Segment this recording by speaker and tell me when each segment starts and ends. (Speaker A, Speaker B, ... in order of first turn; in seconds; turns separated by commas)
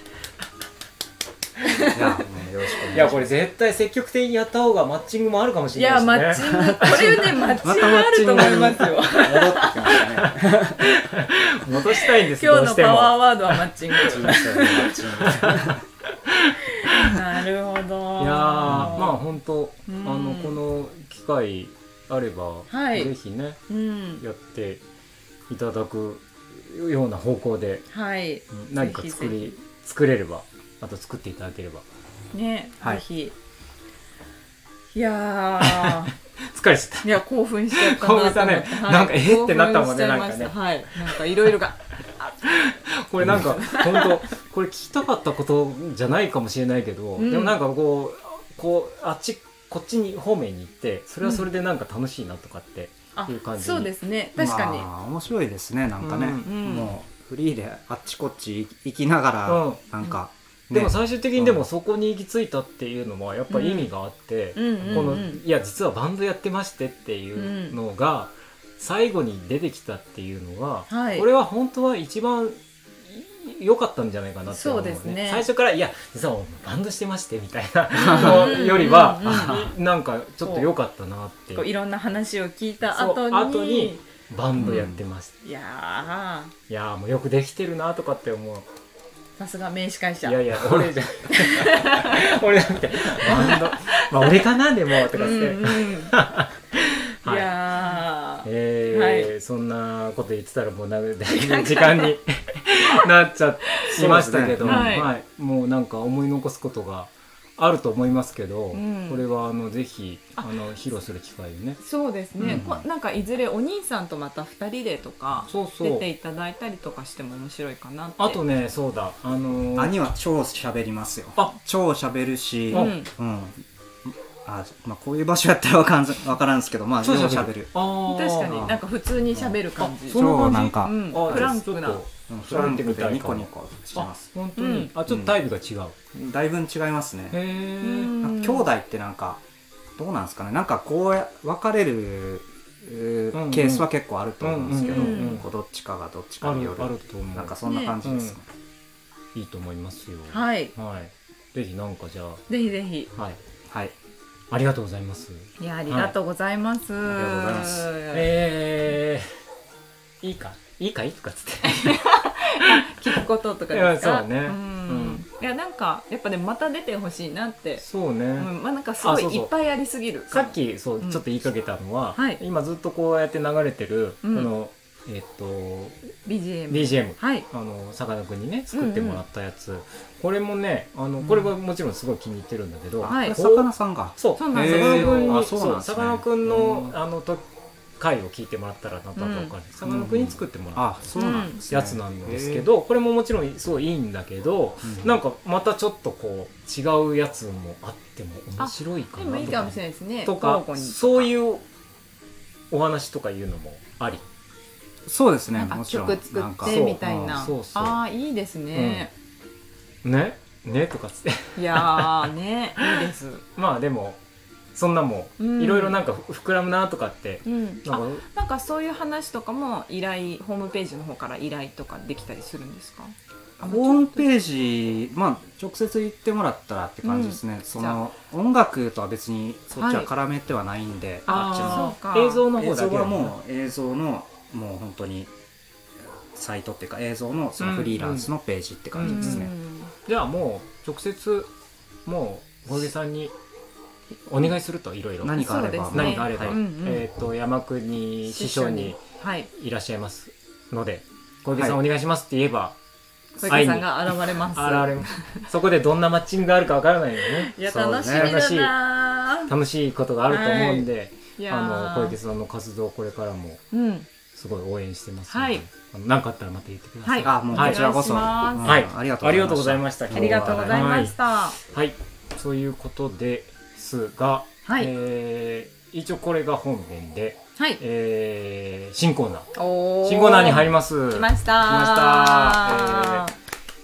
Speaker A: 1.6-2.2, Speaker B: 1.9-3.3, Speaker C: 2.9-7.2, Speaker A: 5.7-10.0, Speaker B: 6.4-10.8, Speaker C: 10.2-17.2, Speaker A: 11.9-15.0, Speaker B: 14.0-15.8, Speaker A: 16.8-19.2, Speaker C: 18.2-23.6, Speaker B: 18.7-19.0, Speaker A: 19.9-20.6, Speaker A: 22.7-23.1, Speaker A: 23.7-24.2, Speaker C: 24.2-24.8, Speaker C: 25.5-27.8, Speaker A: 27.9-29.5, Speaker C: 28.5-31.8, Speaker A: 32.3-33.3, Speaker A: 34.9-36.1, Speaker C: 35.6-37.2, Speaker A: 37.0-42.4, Speaker C: 37.7-40.5, Speaker C: 42.5-53.9, Speaker A: 43.2-44.2, Speaker A: 47.2-47.6, Speaker A: 53.1-54.9, Speaker B: 54.4-61.6, Speaker C: 56.0-56.5, Speaker A: 56.4-56.9, Speaker C: 59.5-59.8, Speaker C: 60.7-81.7, Speaker A: 63.5-63.9, Speaker A: 64.5-65.4, Speaker A: 67.3-67.8, Speaker A: 70.9-71.2, Speaker A: 74.5-75.5, Speaker B: 78.0-78.6, Speaker A: 78.0-79.7, Speaker B: 79.2-79.7, Speaker A: 80.4-80.7, Speaker A: 81.5-84.0, Speaker C: 82.9-85.3, Speaker A: 84.6-84.9, Speaker B: 84.6-85.0, Speaker A: 85.4-86.5, Speaker C: 86.7-88.7, Speaker A: 89.4-90.8, Speaker C: 90.2-97.5, Speaker A: 91.3-92.2, Speaker A: 93.1-94.4, Speaker A: 95.0-96.1, Speaker A: 97.2-99.3, Speaker C: 98.4-111.8, Speaker A: 101.3-102.2, Speaker B: 103.9-105.0, Speaker A: 104.6-105.1, Speaker A: 108.7-109.2, Speaker A: 111.8-118.4, Speaker C: 112.4-112.6, Speaker B: 112.4-112.8, Speaker C: 115.5-116.0, Speaker C: 118.2-119.9, Speaker B: 119.8-127.7, Speaker A: 122.7-123.1, Speaker C: 127.0-128.7, Speaker A: 128.1-132.0, Speaker B: 128.5-128.8, Speaker B: 129.3-131.5, Speaker C: 129.8-130.2, Speaker C: 131.1-136.0, Speaker B: 132.3-134.2, Speaker A: 134.6-134.9, Speaker B: 135.1-135.4, Speaker B: 136.1-137.4, Speaker C: 137.3-138.1, Speaker A: 137.8-138.7, Speaker B: 138.2-139.4, Speaker B: 140.0-148.4, Speaker C: 143.3-143.9, Speaker C: 144.4-145.4, Speaker A: 144.8-145.4, Speaker C: 146.4-148.4, Speaker A: 147.6-147.9, Speaker C: 149.3-152.4, Speaker A: 150.3-150.7, Speaker A: 152.5-153.1, Speaker B: 153.7-153.9, Speaker C: 154.5-156.1, Speaker A: 155.6-158.3, Speaker B: 157.1-157.9, Speaker C: 158.1-159.4, Speaker C: 160.2-162.0, Speaker A: 161.6-167.8, Speaker C: 162.6-163.2, Speaker C: 163.7-165.2, Speaker C: 167.8-168.5, Speaker A: 168.3-171.2, Speaker C: 169.0-169.5, Speaker C: 170.3-176.1, Speaker A: 172.2-172.4, Speaker A: 174.2-174.5, Speaker A: 176.2-177.4, Speaker C: 176.7-187.4, Speaker A: 178.7-179.2, Speaker A: 181.2-181.5, Speaker B: 183.0-186.9, Speaker A: 183.0-183.4, Speaker A: 184.4-185.4, Speaker C: 188.0-190.9, Speaker A: 189.2-189.5, Speaker B: 189.8-192.7, Speaker A: 191.2-191.6, Speaker C: 191.7-201.6, Speaker B: 194.8-195.1, Speaker A: 198.6-201.3, Speaker C: 202.7-204.2, Speaker B: 205.1-207.5, Speaker A: 205.5-209.1, Speaker C: 206.6-208.0, Speaker C: 208.7-209.1, Speaker C: 210.0-212.8, Speaker A: 211.6-213.4, Speaker C: 213.6-214.2, Speaker C: 214.7-218.2, Speaker A: 215.4-216.0, Speaker A: 217.4-224.3, Speaker B: 223.6-231.9, Speaker A: 227.0-228.0, Speaker A: 229.8-230.1, Speaker A: 231.3-232.5, Speaker C: 231.3-233.3, Speaker B: 232.5-235.3, Speaker B: 236.3-239.5, Speaker C: 237.6-238.3, Speaker C: 238.9-239.5, Speaker A: 239.0-239.9, Speaker C: 240.0-241.5, Speaker C: 242.1-243.3, Speaker C: 244.2-249.0, Speaker B: 245.2-246.6, Speaker A: 245.3-247.0, Speaker A: 248.2-249.5, Speaker C: 249.5-252.8, Speaker B: 251.5-251.8, Speaker A: 253.4-255.5, Speaker C: 253.4-257.5, Speaker A: 257.2-259.5, Speaker B: 257.6-258.3, Speaker C: 258.1-258.7, Speaker C: 259.5-263.6, Speaker A: 260.3-262.1, Speaker A: 263.7-264.1, Speaker C: 264.3-267.8, Speaker A: 265.3-265.6, Speaker A: 267.0-268.8, Speaker B: 267.2-270.9, Speaker C: 268.6-271.1, Speaker A: 270.1-271.6, Speaker C: 271.7-279.5, Speaker A: 274.6-274.9, Speaker A: 279.5-283.3, Speaker C: 280.0-283.3